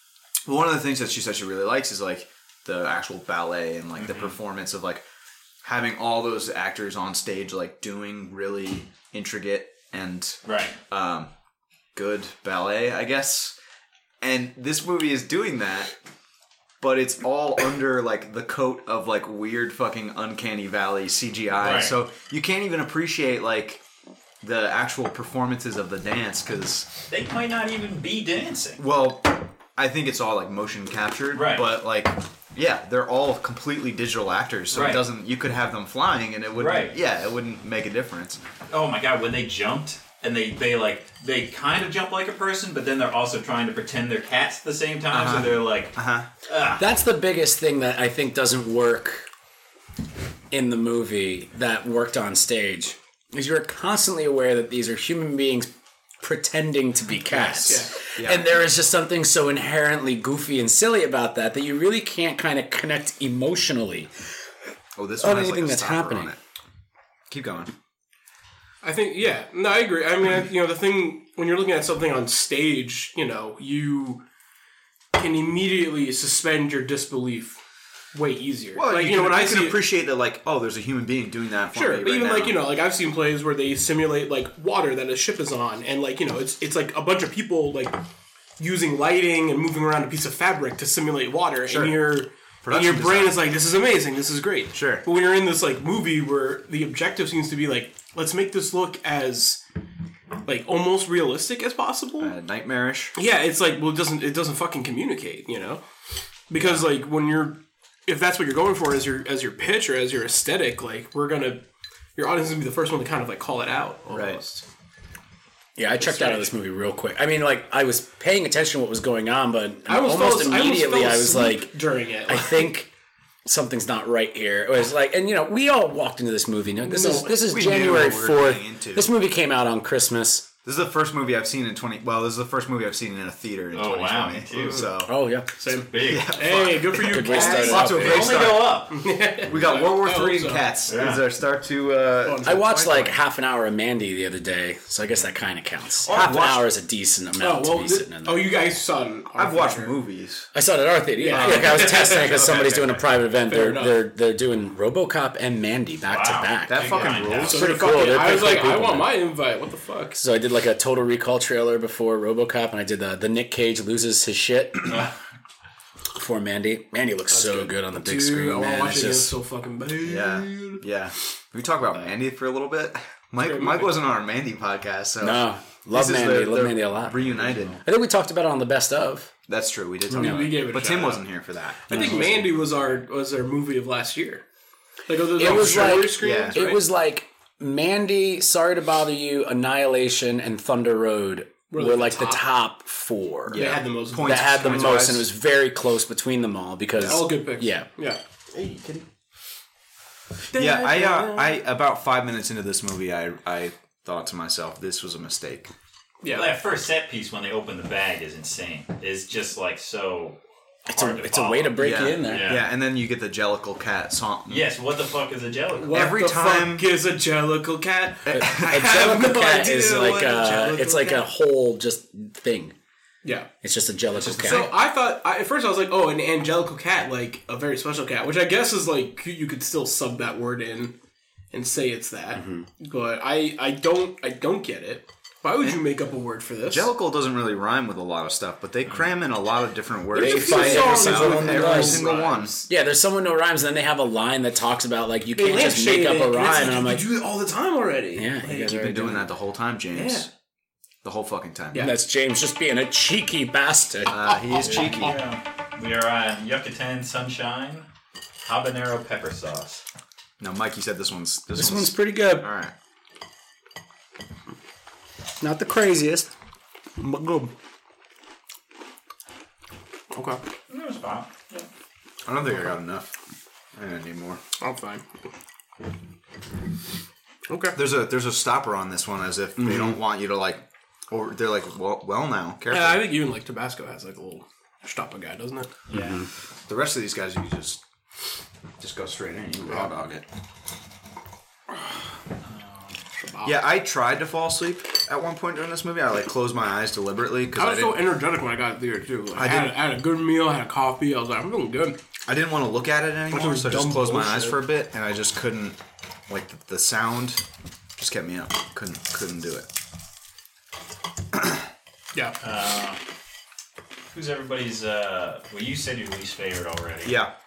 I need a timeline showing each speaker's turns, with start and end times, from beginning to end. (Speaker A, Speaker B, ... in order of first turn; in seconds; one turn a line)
Speaker A: 0.5-5.0
Speaker B: 4.0-4.3
Speaker A: 5.6-11.3
Speaker B: 10.5-10.8
Speaker A: 11.9-13.6
Speaker A: 14.2-15.9
Speaker A: 16.8-23.8
Speaker B: 21.6-21.9
Speaker A: 24.4-26.9
Speaker B: 27.1-28.8
Speaker A: 28.8-38.4
Speaker B: 31.3-31.7
Speaker B: 34.7-35.0
Speaker B: 36.6-37.0
Speaker B: 38.7-46.0
Speaker A: 45.1-46.3
Speaker B: 46.5-46.9
Speaker C: 46.8-49.3
Speaker C: 50.5-55.7
Speaker C: 56.2-64.1
Speaker A: 57.4-58.5
Speaker D: 57.6-57.9
Speaker A: 65.0-66.4
Speaker C: 65.2-66.3
Speaker A: 67.3-67.7
Speaker D: 68.8-74.2
Speaker D: 75.1-77.6
Speaker D: 78.1-79.8
Speaker A: 78.8-82.6
Speaker D: 81.7-88.0
Speaker D: 88.6-99.6
Speaker A: 91.7-92.0
Speaker A: 92.6-93.4
Speaker A: 94.7-95.0
Speaker D: 100.5-102.3
Speaker A: 102.2-103.2
Speaker D: 103.2-105.8
Speaker D: 106.5-111.6
Speaker A: 106.6-106.9
Speaker D: 112.2-114.6
Speaker A: 114.1-114.4
Speaker C: 115.8-122.9
Speaker D: 116.0-116.5
Speaker D: 119.9-122.7
Speaker C: 123.5-130.5
Speaker D: 126.8-127.4
Speaker A: 127.4-129.1
Speaker A: 130.6-135.2
Speaker B: 133.7-134.9
Speaker C: 135.1-135.5
Speaker D: 135.6-138.3
Speaker B: 135.9-136.7
Speaker A: 136.0-143.2
Speaker C: 137.0-138.4
Speaker B: 137.8-139.0
Speaker D: 138.9-140.7
Speaker B: 140.9-141.2
Speaker D: 142.2-143.1
Speaker C: 142.4-148.5
Speaker A: 146.0-146.7
Speaker D: 147.4-149.9
Speaker A: 149.3-150.5
Speaker C: 150.5-159.2
Speaker D: 151.2-152.8
Speaker A: 151.3-153.0
Speaker D: 153.4-154.0
Speaker B: 156.1-157.7
Speaker A: 156.7-157.8
Speaker D: 157.5-160.2
Speaker C: 160.2-165.0
Speaker B: 164.9-165.1
Speaker C: 166.2-169.3
Speaker D: 167.3-170.8
Speaker A: 170.0-177.8
Speaker D: 173.4-174.0
Speaker C: 175.2-179.3
Speaker A: 179.5-182.4
Speaker C: 180.1-180.5
Speaker D: 180.1-181.3
Speaker D: 181.9-184.4
Speaker C: 181.9-182.4
Speaker D: 185.1-186.8
Speaker C: 185.4-197.9
Speaker A: 185.4-186.6
Speaker D: 191.7-192.4
Speaker A: 193.5-195.3
Speaker D: 193.5-195.1
Speaker D: 197.0-199.1
Speaker D: 200.5-201.6
Speaker A: 200.5-205.7
Speaker D: 206.2-206.6
Speaker B: 206.3-212.7
Speaker C: 210.9-212.5
Speaker A: 211.8-214.7
Speaker B: 214.5-216.1
Speaker D: 215.8-220.6
Speaker A: 215.9-216.9
Speaker A: 218.2-221.2
Speaker C: 218.3-222.8
Speaker D: 223.2-223.5
Speaker C: 223.6-224.7
Speaker A: 224.2-224.7
Speaker D: 224.3-231.0
Speaker D: 231.5-236.9
Speaker C: 232.4-232.7
Speaker A: 236.7-242.6
Speaker D: 240.1-242.5
Speaker C: 240.2-247.1
Speaker D: 245.4-249.2
Speaker C: 248.2-249.3
Speaker A: 248.6-250.3
Speaker D: 249.9-250.3
Speaker A: 251.0-251.9
Speaker D: 251.7-252.0
Speaker C: 251.8-254.4
Speaker A: 254.1-255.2
Speaker D: 254.4-255.2
Speaker B: 254.6-257.9
Speaker B: 258.4-259.8
Speaker A: 260.4-262.7
Speaker C: 261.5-262.5
Speaker C: 265.4-266.3
Speaker C: 267.0-267.5
Speaker D: 270.1-270.4
Speaker B: 270.7-271.7
Speaker A: 272.2-273.1
Speaker A: 273.8-274.4
Speaker D: 274.6-275.1
Speaker D: 277.5-277.8
Speaker A: 277.8-283.1
Speaker C: 279.6-279.9
Speaker D: 282.7-285.7
Speaker B: 285.9-286.2
Speaker C: 285.9-286.2
Speaker A: 286.7-287.8
Speaker A: 288.8-290.2
Speaker B: 292.4-293.0
Speaker D: 293.2-293.6
Speaker A: 293.4-298.0
Speaker D: 297.6-302.0
Speaker A: 299.4-299.8
Speaker A: 302.3-307.4
Speaker D: 303.3-304.6
Speaker A: 308.0-309.7
Speaker B: 312.4-313.0
Speaker B: 314.1-317.2
Speaker A: 317.1-317.3